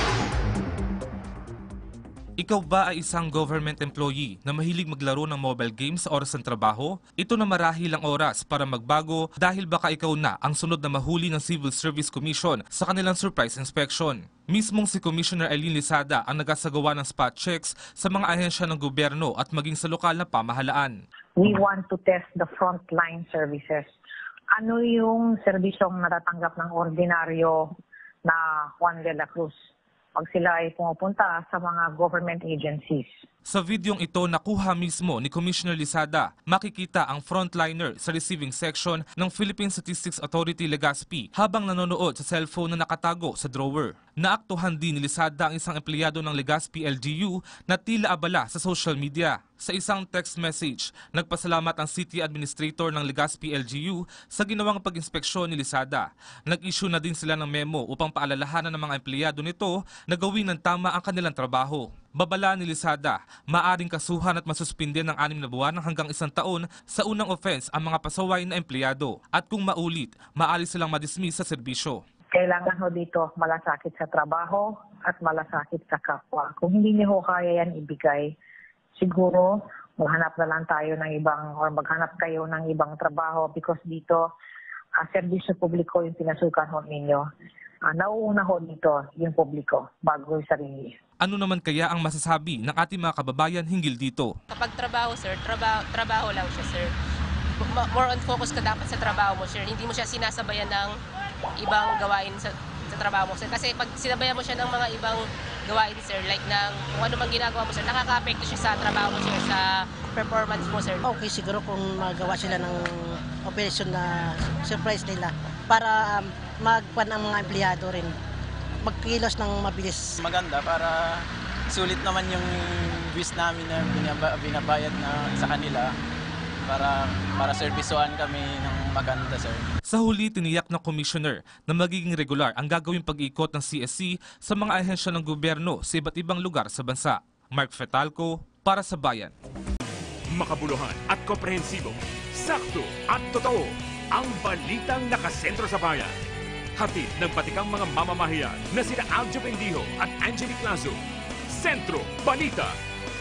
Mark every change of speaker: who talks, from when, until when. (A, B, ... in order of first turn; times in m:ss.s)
0:02.4-0:21.0 A
0:21.4-0:23.9 B
0:24.5-0:27.7 B
0:28.2-0:29.5 B
0:30.2-0:33.1 B
0:33.5-1:12.0 A
1:12.3-1:18.3 B
1:19.0-1:24.3 B
1:25.0-1:27.3 B
1:27.9-1:30.9 B
1:31.2-1:34.3 A
1:34.5-1:36.9 C
1:37.6-1:41.0 C
1:41.6-1:51.1 C
1:51.1-1:58.2 D
1:58.8-2:00.2 D
2:00.2-2:05.9 E
2:06.7-2:09.6 E
2:09.9-2:19.3 A
2:20.3-2:26.1 F
2:26.8-2:31.0 F
2:31.5-2:32.8 F